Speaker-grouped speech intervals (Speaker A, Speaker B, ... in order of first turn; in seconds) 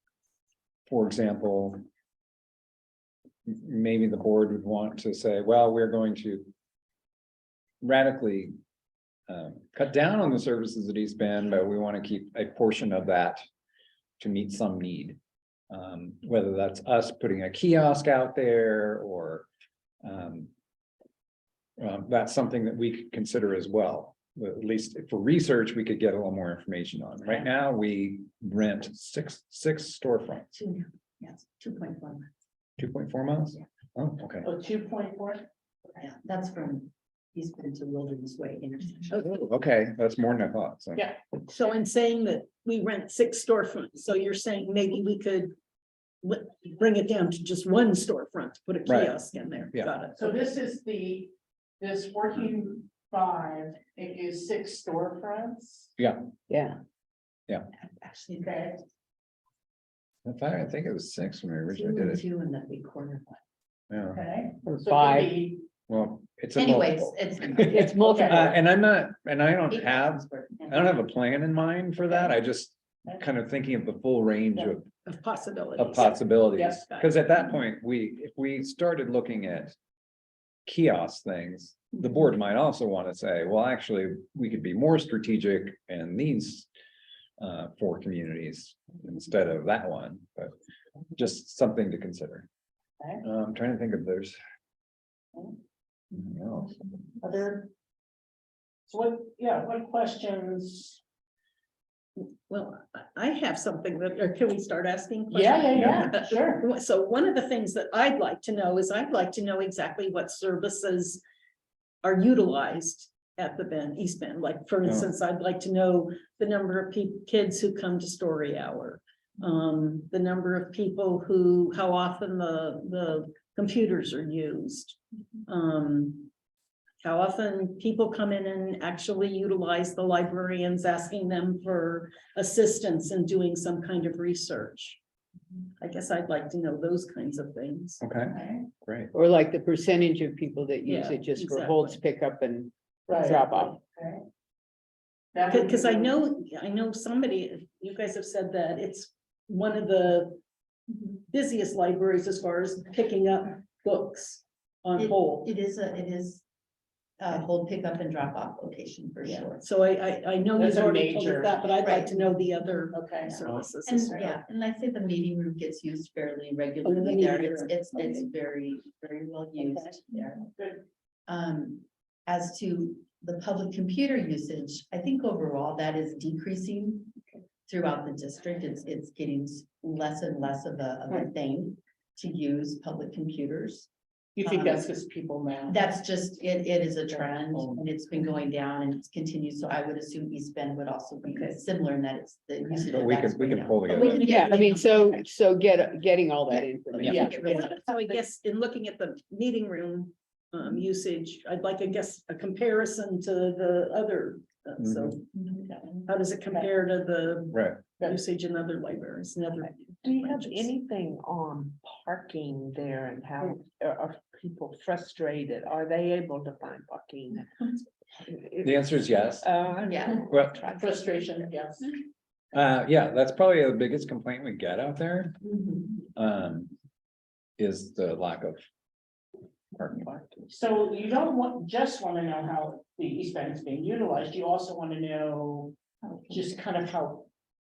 Speaker A: 0.9-1.8, 3.5-6.5, 7.8-8.5, 9.3-13.4, 14.2-15.2, 15.7-19.5, 20.0-20.5, 21.8-30.5, 32.8-34.5, 39.1-41.1, 48.9-49.1, 56.0-56.2, 60.3-62.2, 63.9-64.2, 65.9-74.9, 75.8-79.8, 80.7-86.7, 87.4-90.5, 91.2-92.5, 93.2-94.4, 96.1-97.1, 105.8-106.1, 138.0-139.1, 192.9-194.6, 204.8-205.1, 207.5-207.8, 218.6-219.5, 220.3-220.7, 222.5-225.4, 226.2-226.7, 227.6-228.6, 229.8-230.2
Speaker B: 30.5-32.3, 36.0-39.3, 57.7-58.8, 61.7-63.4, 66.5-68.0, 69.7-71.0, 155.0-156.4, 157.2-159.7, 161.8-162.4, 163.3-170.5, 171.3-177.2, 177.7-183.9, 184.4-184.9, 185.7-195.2, 197.1-197.8, 219.9-220.2, 225.4-226.0, 236.0-236.4
Speaker C: 34.4-35.5, 50.1-55.9, 64.1-65.6, 68.0-68.5, 97.2-97.7, 98.9-101.0, 105.3-106.6, 138.3-138.6, 143.1-144.2, 145.3-146.1, 160.5-161.6, 162.9-163.4, 166.9-168.2, 169.6-170.0, 170.6-170.8, 184.4-185.8, 187.3-187.8, 197.1-197.4, 220.7-222.0, 230.5-235.7, 236.3-237.3
Speaker D: 41.5-45.5, 46.2-50.3, 75.1-77.1, 102.2-111.2, 112.0-126.3, 127.0-135.0, 135.8-138.0, 140.9-142.0, 145.5-150.4, 151.3-155.4, 159.6-164.3, 167.4-167.6, 197.3-210.7
Speaker E: 56.5-56.8, 64.7-65.4, 67.6-68.5, 139.1-143.8, 194.0-197.7
Speaker F: 210.0-217.5, 218.3-221.0